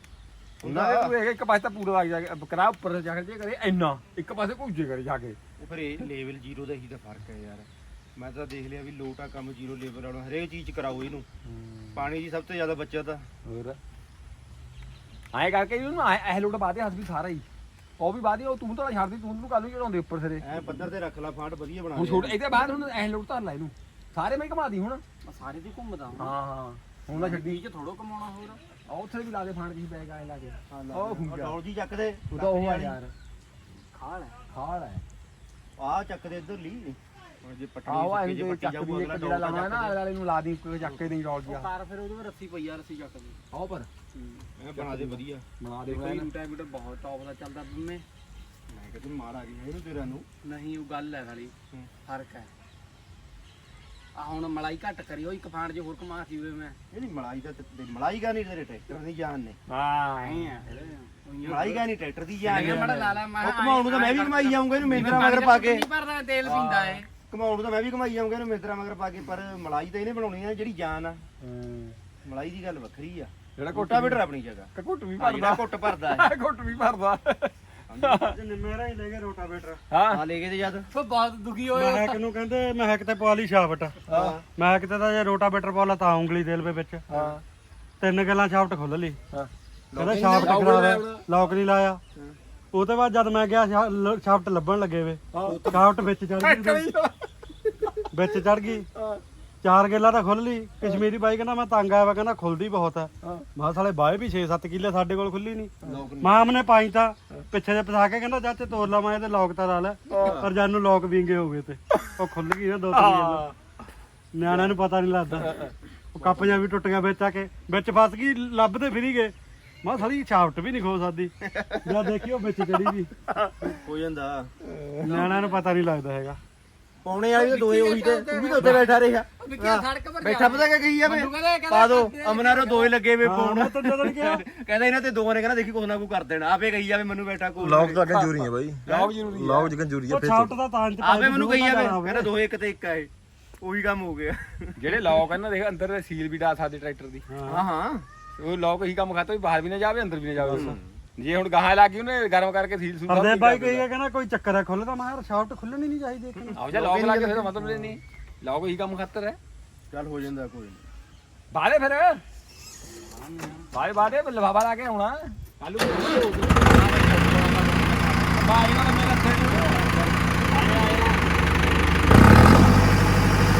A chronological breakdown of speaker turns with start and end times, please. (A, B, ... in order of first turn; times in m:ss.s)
0:00.6-0:01.1 A
0:00.6-0:05.4 B
0:05.6-0:11.2 A
0:11.4-0:12.0 B
0:11.9-0:13.2 A
0:13.4-0:13.8 B
0:15.3-0:17.4 B
0:18.0-0:20.5 B
0:20.4-0:22.4 A
0:21.9-0:25.0 B
0:25.2-0:26.3 C
0:26.2-0:27.6 B
0:27.1-0:28.6 C
0:28.9-0:31.6 B
0:30.7-0:33.0 A
0:32.3-0:33.1 B
0:33.9-0:34.4 C
0:34.5-0:35.0 B
0:35.8-0:40.0 A
0:37.9-0:41.7 B
0:41.4-0:43.4 C
0:43.5-0:43.9 B
0:44.1-0:44.5 C
0:44.6-0:45.4 A
0:44.7-0:46.3 B
0:45.8-0:48.0 C
0:48.7-0:50.2 A
0:50.4-0:51.5 C
0:52.0-0:52.5 C
0:54.2-0:56.8 C
0:56.9-0:59.6 A
0:59.7-1:00.5 B
1:00.2-1:01.9 C
1:01.4-1:05.9 A
1:02.4-1:07.1 C
1:02.5-1:02.9 B
1:04.9-1:05.2 B
1:06.4-1:11.2 A
1:11.4-1:11.9 B
1:12.2-1:16.3 A
1:13.6-1:14.2 B
1:14.7-1:18.4 B
1:17.9-1:18.3 A
1:18.3-1:19.8 D
1:19.9-1:20.2 B
1:20.1-1:20.9 A
1:20.9-1:22.2 C
1:21.7-1:24.0 D
1:24.0-1:24.4 A
1:24.1-1:24.4 B
1:24.6-1:27.0 D
1:27.1-1:27.4 B
1:28.0-1:29.2 D
1:29.9-1:31.1 A
1:30.0-1:32.0 D
1:30.2-1:31.2 B
1:32.7-1:36.9 D
1:35.3-1:35.8 B
1:35.4-1:35.8 A
1:36.4-1:38.4 B
1:38.1-1:38.9 D
1:38.9-1:39.2 B
1:39.6-1:53.5 D
1:45.8-1:46.6 A
1:50.1-1:50.4 B
1:50.2-1:50.5 A
1:52.9-1:53.5 B
1:54.3-2:01.3 D
1:55.4-1:55.7 B
2:01.4-2:02.0 A
2:01.8-2:03.2 D
2:03.7-2:04.5 A
2:04.6-2:05.3 B
2:05.0-2:06.4 D
2:05.1-2:05.6 C
2:07.0-2:19.2 A
2:07.4-2:13.0 C
2:13.2-2:14.4 D
2:17.6-2:20.5 E
2:18.9-2:19.7 B
2:20.1-2:22.3 D
2:21.0-2:23.1 A
2:23.6-2:24.8 A
2:24.8-2:27.2 B
2:27.3-2:27.6 D
2:27.5-2:28.0 A
2:28.4-2:33.8 B
2:30.4-2:30.8 D
2:30.5-2:31.0 A
2:33.1-2:36.6 D
2:36.4-2:37.6 A
2:36.6-2:39.4 B
2:39.9-2:40.8 A
2:41.5-2:42.2 B
2:43.1-2:43.7 C
2:43.7-2:46.9 B
2:46.7-2:48.4 C
2:48.3-2:51.2 B